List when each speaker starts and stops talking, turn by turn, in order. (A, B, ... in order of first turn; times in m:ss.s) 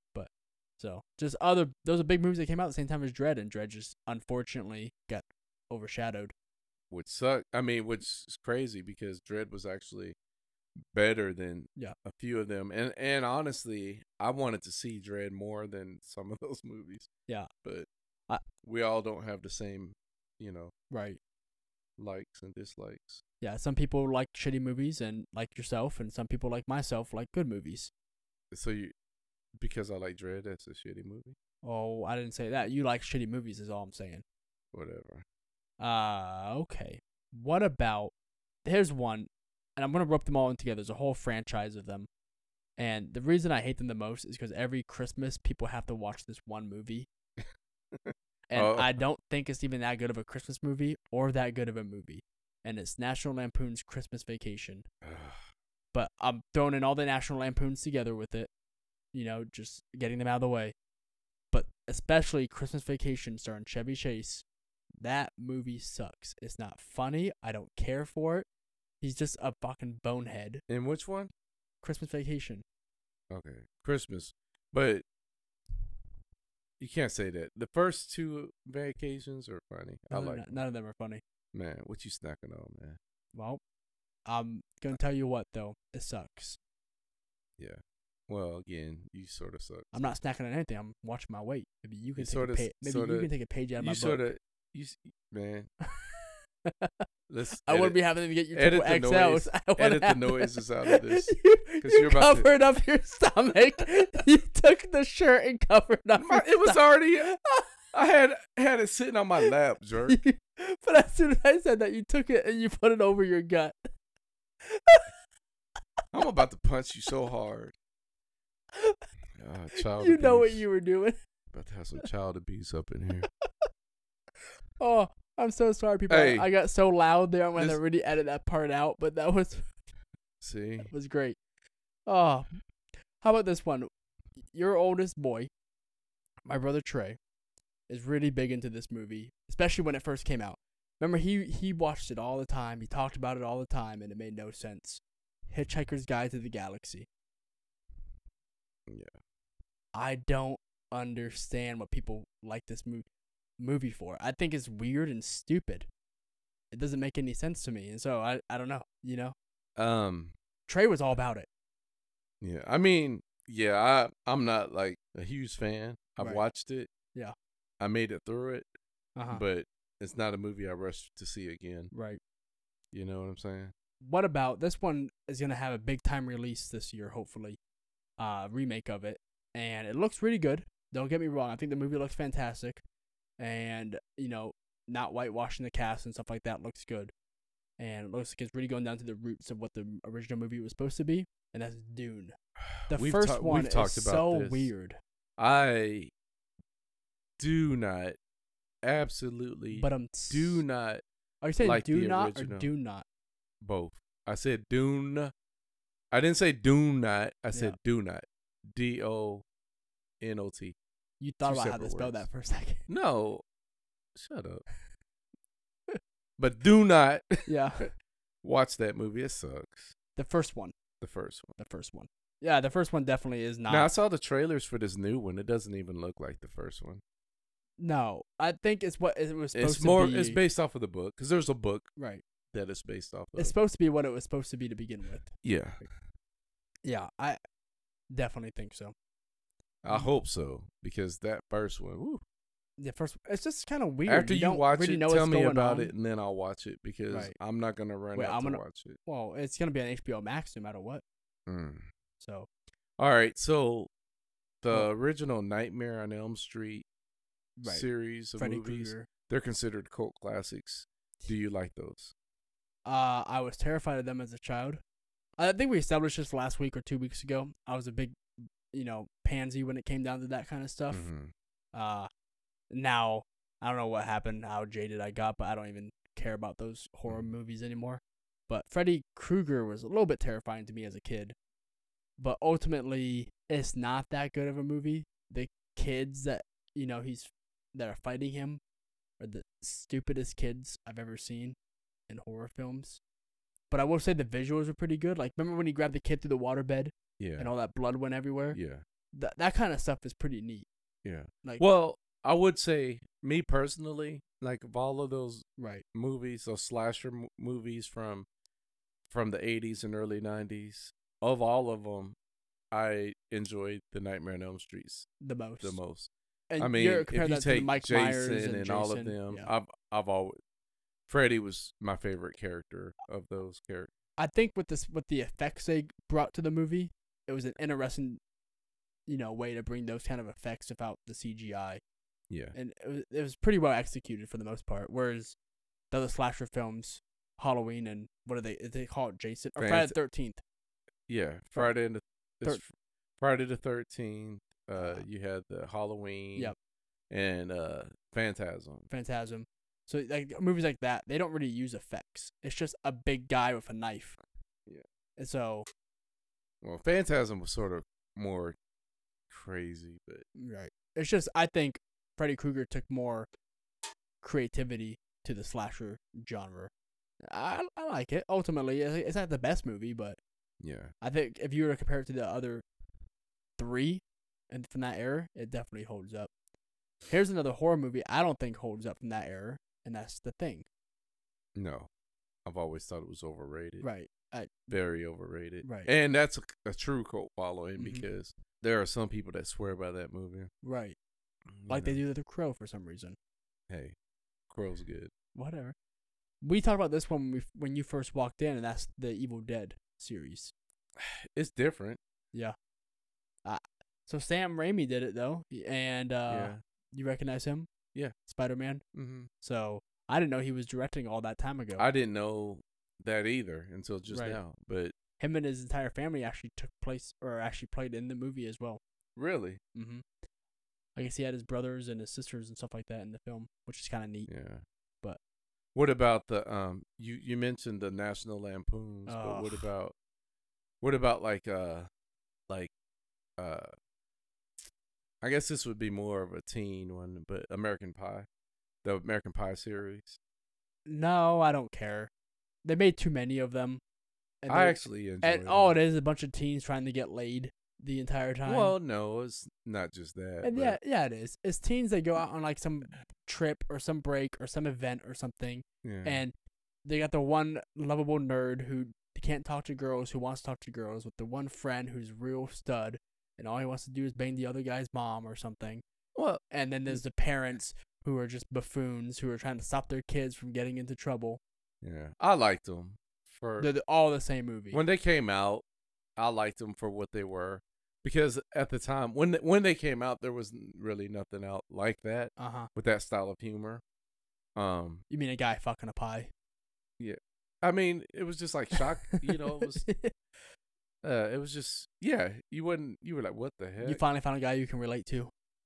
0:00.1-0:06.3 A
0:06.9-0:10.2 B
0:10.9-0:17.1 B
0:18.6-0:20.7 B
0:20.9-0:21.2 A
0:22.0-0:23.2 B
0:23.4-0:27.9 A
0:28.5-0:28.9 B
0:29.6-0:31.4 B
0:31.6-0:34.2 A
0:34.7-0:35.2 B
0:35.8-0:38.1 A
0:38.6-0:42.1 A
0:42.8-0:47.1 A
0:47.4-0:49.0 B
0:48.5-0:54.9 A
0:55.0-0:55.4 B
0:55.9-0:58.5 A
0:59.1-1:00.8 A
1:01.5-1:04.4 A
1:05.0-1:08.5 A
1:09.0-1:10.6 A
1:10.7-1:11.3 B
1:11.8-1:12.6 A
1:13.3-1:15.0 B
1:16.8-1:20.6 B
1:20.1-1:21.2 A
1:21.5-1:23.0 B
1:23.4-1:23.6 A
1:24.3-1:26.6 A
1:27.6-1:30.1 B
1:29.9-1:34.2 A
1:32.2-1:35.7 B
1:35.9-1:37.0 A
1:37.3-1:38.0 B
1:37.7-1:47.7 A
1:38.5-1:42.5 B
1:46.2-1:47.3 B
1:47.9-1:50.2 B
1:50.1-1:53.9 A
1:54.6-1:55.1 A
1:56.1-1:57.7 B
1:58.7-1:59.0 A
1:59.4-2:00.6 B
1:59.8-2:01.2 A
2:01.5-2:03.3 B
2:04.8-2:09.7 A
2:06.1-2:06.5 B
2:10.4-2:10.9 B
2:10.8-2:11.4 A
2:12.1-2:12.6 A
2:13.2-2:13.9 A
2:14.5-2:15.5 A
2:16.4-2:17.2 A
2:17.9-2:27.1 A
2:28.9-2:29.1 B
2:29.9-2:33.1 A
2:33.6-2:35.9 A
2:36.7-2:39.4 A
2:39.8-2:40.4 B
2:40.7-2:41.5 A
2:42.4-2:46.9 B
2:47.8-2:48.7 B
2:49.2-2:49.4 A
2:49.3-2:51.9 B
2:51.9-2:52.2 A
2:52.9-2:53.7 B
2:54.0-2:57.6 A
2:58.2-3:02.8 A
3:03.4-3:07.1 A
3:07.8-3:12.4 A
3:12.6-3:14.7 B
3:12.9-3:15.0 A
3:15.4-3:16.1 B
3:17.4-3:18.2 B
3:18.8-3:21.0 B
3:19.7-3:20.6 A
3:21.4-3:23.1 A
3:21.6-3:22.7 B
3:23.6-3:25.3 B
3:26.1-3:29.4 B
3:27.5-3:27.8 A
3:30.2-3:30.8 B
3:31.2-3:32.8 A
3:31.4-3:32.2 B
3:32.9-3:33.4 B
3:34.2-3:34.6 B
3:36.4-3:37.9 B
3:37.5-3:37.9 A
3:38.4-3:40.0 B
3:40.2-3:40.8 A
3:41.0-3:41.6 B
3:41.6-3:43.9 A
3:43.7-3:47.0 B
3:47.8-3:50.4 A
3:49.5-3:51.9 B
3:52.0-3:52.2 A
3:52.5-3:53.6 B
3:53.4-3:55.3 A
3:55.4-3:55.8 B
3:56.8-3:57.4 A
3:58.1-3:58.9 A
3:59.8-4:02.2 B
4:02.8-4:05.9 A
4:04.1-4:09.0 B
4:08.2-4:11.0 A
4:11.5-4:11.9 B
4:12.2-4:12.5 A
4:13.0-4:13.9 B
4:14.6-4:16.8 B
4:17.6-4:17.9 A
4:17.7-4:22.1 B
4:18.4-4:19.1 A
4:22.9-4:24.8 A
4:25.4-4:31.1 A
4:30.9-4:31.3 B
4:31.7-4:32.1 A
4:32.7-4:41.4 A
4:42.2-4:48.6 A
4:49.2-4:51.6 A
4:52.1-4:53.0 A
4:53.7-4:58.6 A
4:57.2-4:57.5 B
4:58.5-4:58.8 B
4:59.1-5:00.7 A
5:01.0-5:08.3 B
5:05.6-5:05.8 A
5:09.1-5:12.2 B
5:12.7-5:15.1 B
5:15.2-5:15.8 A
5:15.6-5:20.4 B
5:16.5-5:19.5 A
5:21.1-5:23.9 B
5:24.2-5:28.2 A
5:29.1-5:31.8 A
5:32.3-5:32.6 B
5:32.5-5:35.4 A
5:35.9-5:40.4 A
5:39.6-5:40.0 B
5:41.1-5:46.6 B
5:44.8-5:45.0 A
5:47.1-5:48.9 B
5:48.9-5:54.2 A
5:55.2-5:55.7 A
5:56.6-5:58.6 B
5:59.3-6:00.2 B
6:00.4-6:03.3 A
6:04.2-6:06.7 A
6:07.2-6:10.2 A
6:10.6-6:10.9 B
6:11.0-6:12.6 A
6:13.6-6:16.3 A
6:17.1-6:20.7 A
6:21.6-6:21.9 B
6:22.5-6:23.9 B
6:23.8-6:24.5 A
6:24.7-6:30.5 B
6:25.6-6:25.9 A
6:27.8-6:28.1 A
6:30.6-6:31.0 A
6:31.5-6:32.0 B
6:31.7-6:33.2 A
6:33.7-6:34.0 B
6:34.5-6:35.1 B
6:35.3-6:35.8 A
6:36.4-6:40.5 A
6:41.0-6:42.0 B
6:43.4-6:47.7 A
6:46.3-6:46.6 B
6:48.3-6:48.8 A
6:48.9-6:49.3 B
6:49.4-6:51.8 A
6:51.8-6:54.9 B
6:54.1-6:54.4 A
6:55.2-6:58.8 A
6:59.2-6:59.6 B
6:59.8-7:00.0 A
7:01.0-7:04.3 A
7:04.3-7:04.6 B
7:05.8-7:10.0 B
7:09.1-7:09.7 A
7:10.8-7:11.9 B
7:13.4-7:13.7 B
7:15.2-7:18.3 B
7:18.8-7:20.2 B
7:20.9-7:22.1 A
7:22.6-7:23.8 A
7:24.4-7:28.8 A
7:24.5-7:25.8 B
7:28.5-7:30.8 B
7:30.4-7:36.3 A
7:35.8-7:36.2 B
7:36.8-7:45.8 A
7:46.2-7:47.0 B
7:46.5-7:51.4 A
7:51.8-7:53.7 B
7:53.6-7:54.8 A
7:54.7-7:55.6 B
7:56.2-8:03.8 B
8:02.4-8:02.7 A
8:04.6-8:05.0 B
8:05.1-8:06.3 A
8:07.0-8:09.9 B
8:08.7-8:10.1 A
8:11.0-8:14.0 B
8:13.8-8:15.3 A